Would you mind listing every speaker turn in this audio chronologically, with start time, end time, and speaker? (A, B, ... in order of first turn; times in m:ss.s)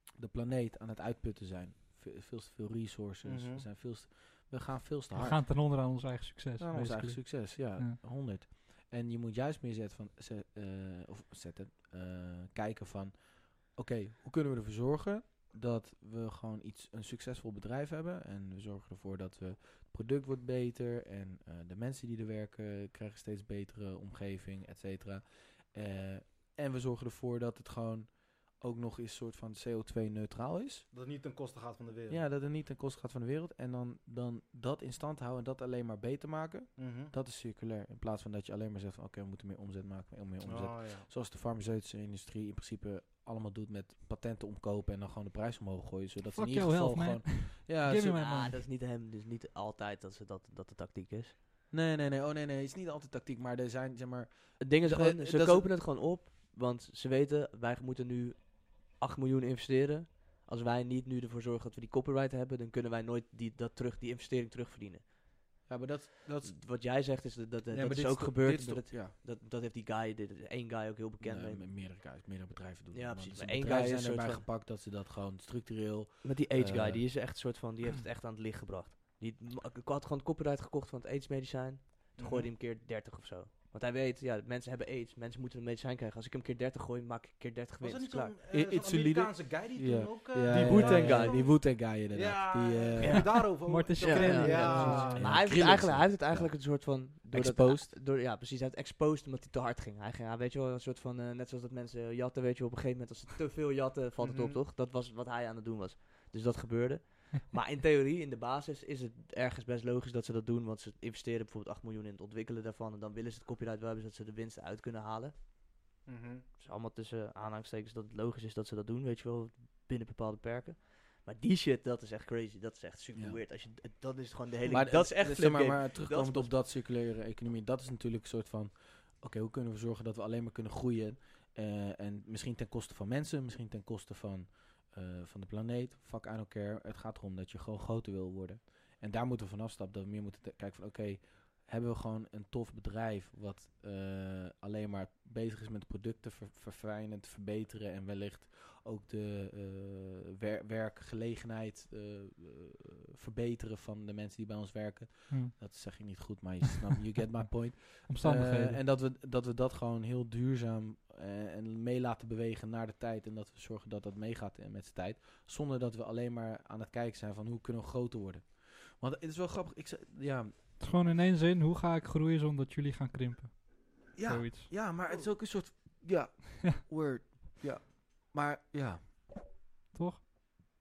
0:00.2-0:05.4 A
0:03.2-0:03.6 B
0:05.1-0:08.0 C
0:06.6-0:30.8 A
0:30.9-0:32.2 B
0:32.1-0:48.2 A
0:36.8-0:37.1 B
0:40.4-0:41.1 B
0:46.3-0:48.6 C
0:48.1-0:51.3 D
0:51.7-0:55.7 A
0:54.6-1:05.1 D
1:05.7-1:06.6 A
1:06.4-1:11.7 D
1:07.8-1:08.3 B
1:07.8-1:09.1 A
1:11.2-1:17.1 A
1:12.9-1:14.4 D
1:16.2-1:28.3 D
1:22.2-1:22.5 B
1:27.8-1:35.4 B
1:28.5-1:33.4 A
1:30.5-1:31.4 D
1:33.1-1:35.2 C
1:34.0-1:55.3 D
1:34.4-1:38.0 A
1:44.2-1:44.6 B
1:56.0-1:56.4 B
1:56.6-2:06.6 D
2:03.1-2:03.4 A
2:04.7-2:50.5 A
2:35.3-2:36.1 C
2:38.1-2:38.8 C
2:50.8-2:54.8 C
2:54.1-2:59.3 A
2:59.9-3:00.2 C